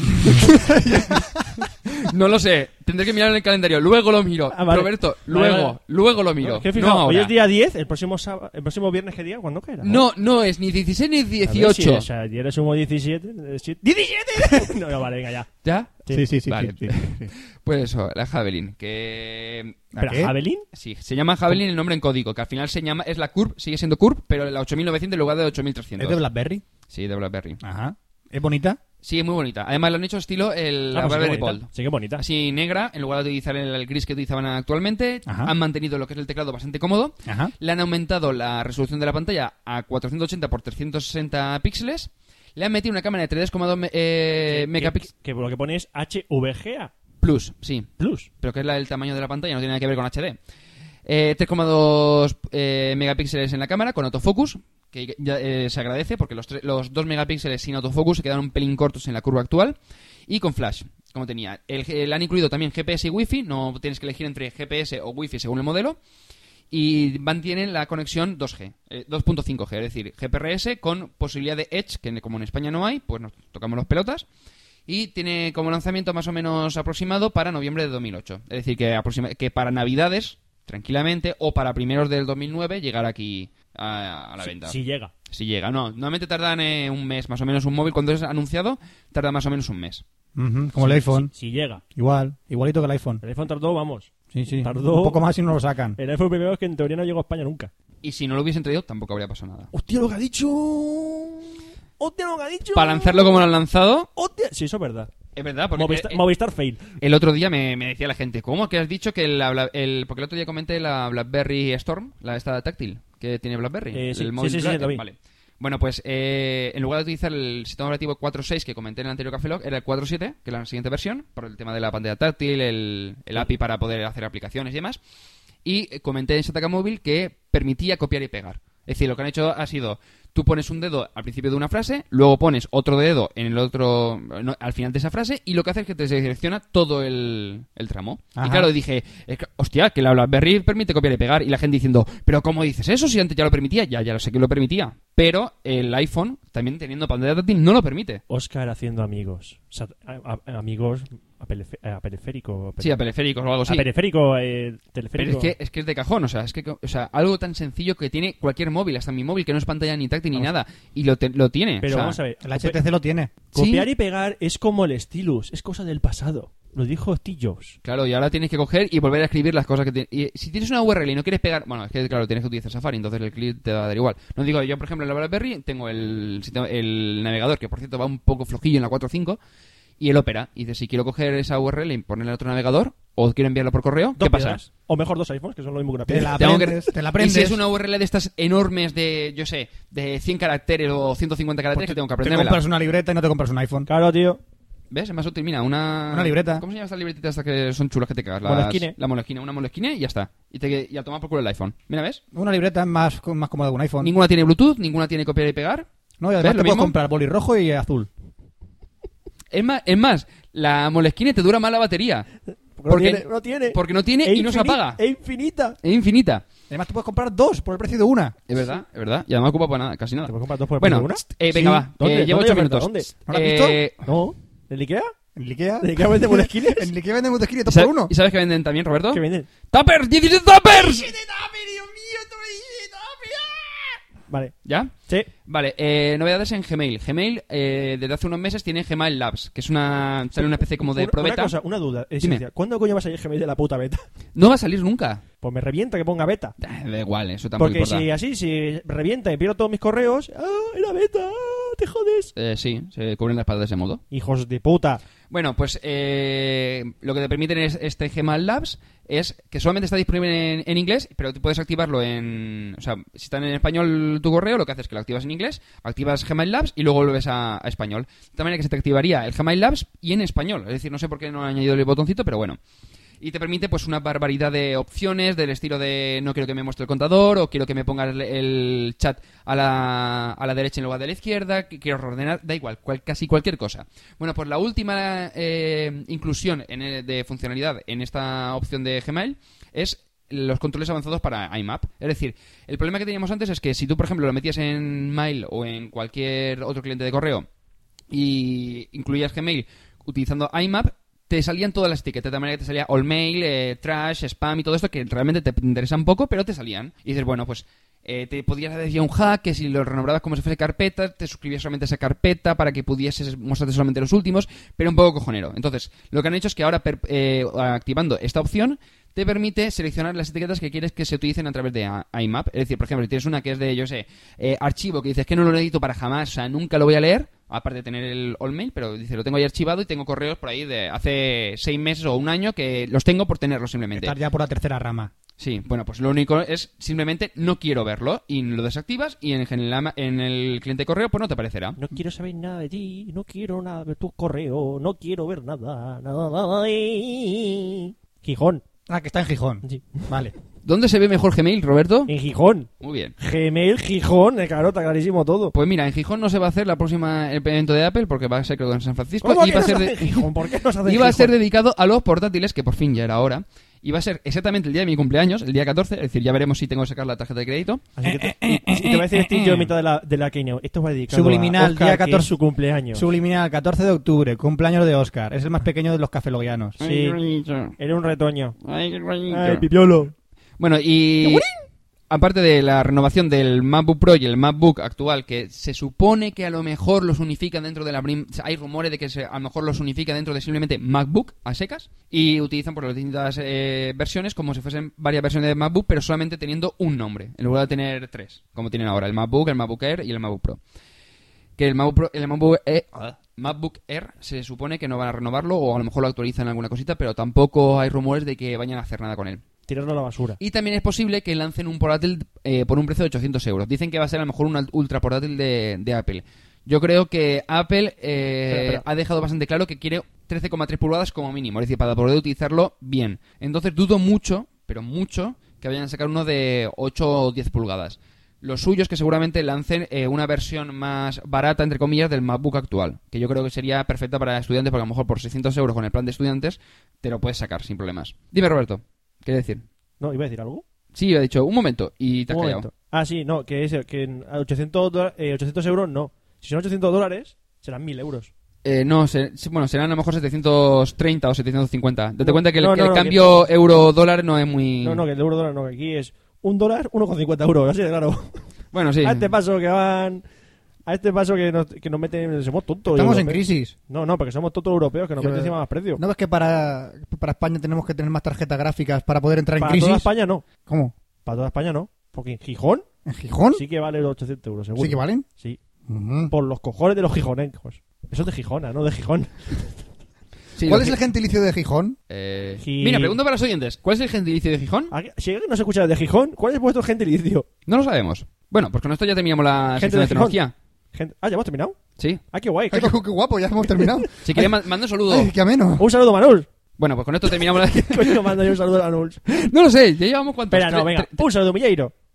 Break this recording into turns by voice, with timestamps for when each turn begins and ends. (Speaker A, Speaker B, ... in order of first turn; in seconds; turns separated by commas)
Speaker A: 0.3-7.3, Speaker B: 4.5-5.8, Speaker B: 6.4-10.0, Speaker A: 9.8-12.1, Speaker B: 11.4-15.5, Speaker A: 15.6-19.8, Speaker C: 16.1-17.3, Speaker C: 19.9-20.3, Speaker B: 20.0-20.7, Speaker A: 20.7-26.2, Speaker C: 26.0-26.6, Speaker A: 26.9-27.6, Speaker C: 27.6-28.8, Speaker A: 29.0-45.1, Speaker B: 30.9-32.2, Speaker C: 35.3-35.5, Speaker C: 37.3-37.5, Speaker B: 44.5-46.9, Speaker A: 47.2-50.4, Speaker B: 48.0-48.3, Speaker A: 51.1-66.0, Speaker A: 66.7-74.3, Speaker A: 74.9-84.8, Speaker B: 84.4-85.1, Speaker A: 85.3-90.0, Speaker C: 90.4-91.3, Speaker B: 90.8-91.8, Speaker C: 92.0-93.2, Speaker B: 93.2-94.1, Speaker C: 94.3-96.0, Speaker B: 94.6-95.2, Speaker B: 96.0-97.7, Speaker A: 98.0-99.7, Speaker B: 99.7-103.5, Speaker A: 102.8-104.1, Speaker B: 104.2-105.1, Speaker A: 105.4-106.2, Speaker B: 105.7-106.9, Speaker A: 107.0-125.0, Speaker B: 113.9-115.0, Speaker A: 125.7-148.2, Speaker C: 138.4-138.7, Speaker B: 148.3-153.0, Speaker A: 152.8-153.9, Speaker B: 153.7-155.5, Speaker A: 155.2-162.2, Speaker B: 161.8-162.8, Speaker C: 162.4-163.3, Speaker B: 163.5-167.8, Speaker A: 163.5-163.9, Speaker A: 167.8-179.4, Speaker A: 180.0-184.6, Speaker B: 184.2-186.4, Speaker C: 186.1-187.6, Speaker A: 186.4-192.6, Speaker C: 191.8-193.9, Speaker B: 193.9-194.4, Speaker A: 194.9-202.2, Speaker C: 196.1-196.6, Speaker B: 198.4-198.9, Speaker C: 202.3-204.1, Speaker A: 204.0-205.9, Speaker C: 206.2-208.1, Speaker A: 206.4-207.0, Speaker A: 209.5-212.3, Speaker B: 212.8-215.8, Speaker A: 212.9-215.0, Speaker A: 215.8-216.4, Speaker C: 216.7-218.4, Speaker A: 218.5-223.9, Speaker B: 220.2-221.3, Speaker C: 221.5-221.9, Speaker B: 221.9-223.1, Speaker C: 223.3-223.8, Speaker B: 224.0-225.1, Speaker C: 225.4-228.1, Speaker B: 225.8-226.9, Speaker A: 227.7-231.1, Speaker B: 229.1-229.5, Speaker B: 231.1-234.6, Speaker A: 234.7-234.9, Speaker A: 235.4-241.6, Speaker B: 240.4-244.1, Speaker A: 244.3-245.2, Speaker B: 245.4-246.6, Speaker A: 246.6-248.1, Speaker B: 247.6-252.3, Speaker A: 252.4-254.0, Speaker B: 254.1-255.0, Speaker A: 255.3-272.6, Speaker A: 273.2-297.5, Speaker A: 298.1-334.2, Speaker C: 333.9-335.1, Speaker A: 335.4-341.8, Speaker B: 341.8-348.6, Speaker C: 348.9-350.3, Speaker B: 349.6-350.1, Speaker A: 350.6-352.1, Speaker B: 352.1-355.5, Speaker A: 352.8-353.1, Speaker A: 355.5-360.3, Speaker B: 359.2-361.3, Speaker A: 360.9-367.9, Speaker B: 368.0-373.1, Speaker C: 368.1-369.6, Speaker C: 371.1-372.4, Speaker C: 372.9-376.8, Speaker A: 376.8-377.8, Speaker B: 376.8-377.2, Speaker B: 377.8-378.6, Speaker A: 378.6-379.6, Speaker B: 379.3-380.1, Speaker A: 380.6-381.5, Speaker B: 381.2-381.6, Speaker A: 382.1-400.6, Speaker A: 401.6-409.4, Speaker B: 409.7-410.4, Speaker A: 410.4-439.6, Speaker B: 418.5-418.8, Speaker B: 440.0-440.6, Speaker A: 440.9-442.7, Speaker B: 442.3-448.3, Speaker A: 448.6-455.0, Speaker B: 452.2-453.5, Speaker B: 454.8-460.2, Speaker A: 458.7-459.3, Speaker B: 460.9-466.0, Speaker C: 462.9-463.7, Speaker C: 465.2-470.1, Speaker B: 469.6-470.4, Speaker C: 470.7-470.9, Speaker B: 471.2-472.9, Speaker C: 473.1-473.6, Speaker B: 473.5-475.6, Speaker C: 474.8-475.3, Speaker C: 475.9-476.3, Speaker B: 476.3-479.9, Speaker A: 480.6-481.0, Speaker C: 480.6-482.0, Speaker A: 482.1-484.9, Speaker B: 482.6-483.2, Speaker B: 484.9-487.5, Speaker A: 487.7-490.5, Speaker B: 489.8-490.4, Speaker B: 490.9-491.8, Speaker B: 492.3-493.0, Speaker C: 492.7-494.5, Speaker B: 493.8-494.1, Speaker A: 494.2-495.3, Speaker C: 495.1-495.9, Speaker B: 495.8-496.5, Speaker A: 496.8-498.4, Speaker B: 497.5-499.2, Speaker A: 499.3-501.2, Speaker B: 500.5-501.9